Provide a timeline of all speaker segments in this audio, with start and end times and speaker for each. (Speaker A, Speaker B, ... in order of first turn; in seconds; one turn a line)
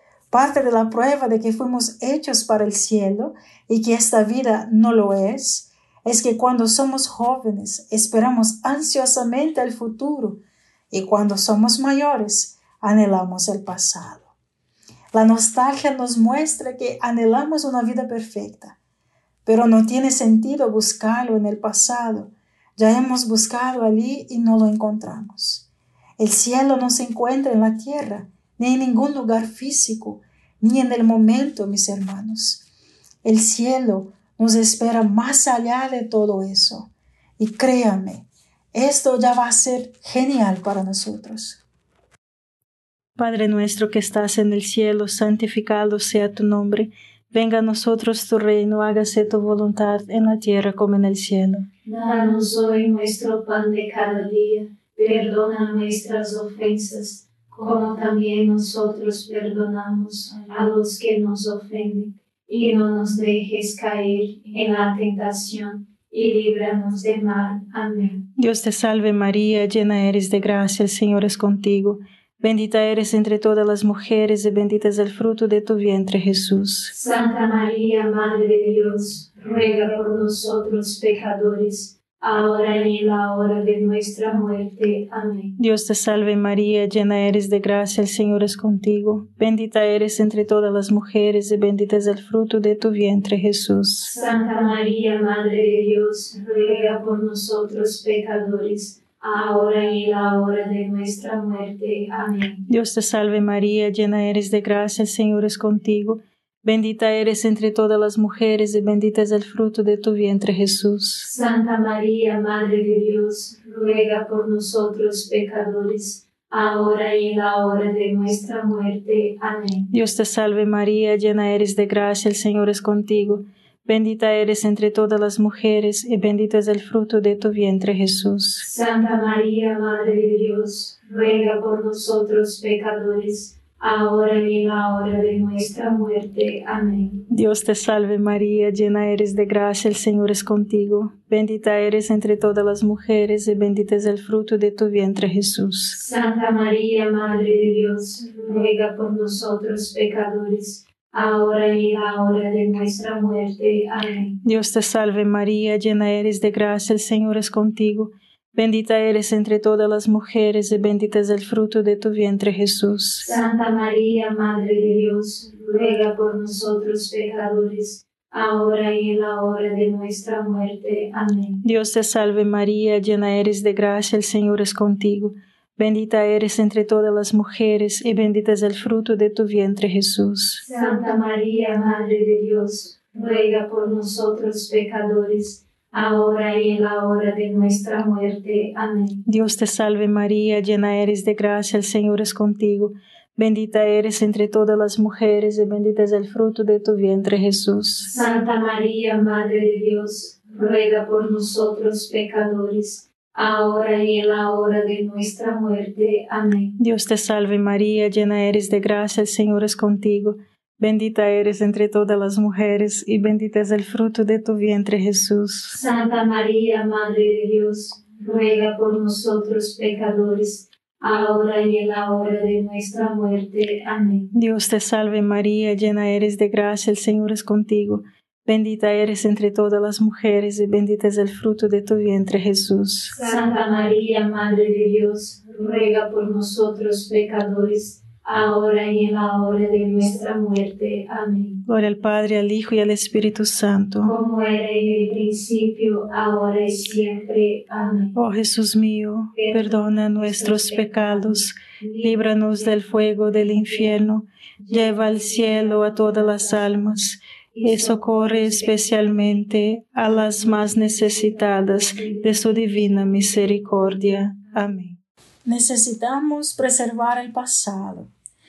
Speaker A: 0.3-14.3
Speaker A: 15.1-18.8
Speaker A: 19.4-25.7
Speaker A: 26.2-32.6
Speaker A: 33.2-41.6
Speaker B: 43.2-51.7
Speaker C: 51.9-68.2
Speaker B: 68.4-76.9
Speaker C: 76.9-85.5
Speaker B: 85.6-94.1
Speaker C: 94.0-102.6
Speaker B: 102.7-111.3
Speaker C: 111.2-119.9
Speaker B: 119.9-128.6
Speaker C: 128.6-137.2
Speaker B: 137.3-145.9
Speaker C: 145.9-154.3
Speaker B: 154.4-163.3
Speaker C: 163.2-171.6
Speaker B: 171.6-180.6
Speaker C: 180.6-189.2
Speaker B: 189.2-198.1
Speaker C: 198.0-206.7
Speaker B: 206.8-215.8
Speaker C: 215.7-224.3
Speaker B: 224.3-233.2
Speaker C: 233.2-241.6
Speaker B: 241.7-244.1
Speaker C: 244.0-248.1
Speaker B: 248.2-265.0
Speaker C: 249.3-252.1
Speaker C: 257.5-258.7
Speaker A: 265.4-268.1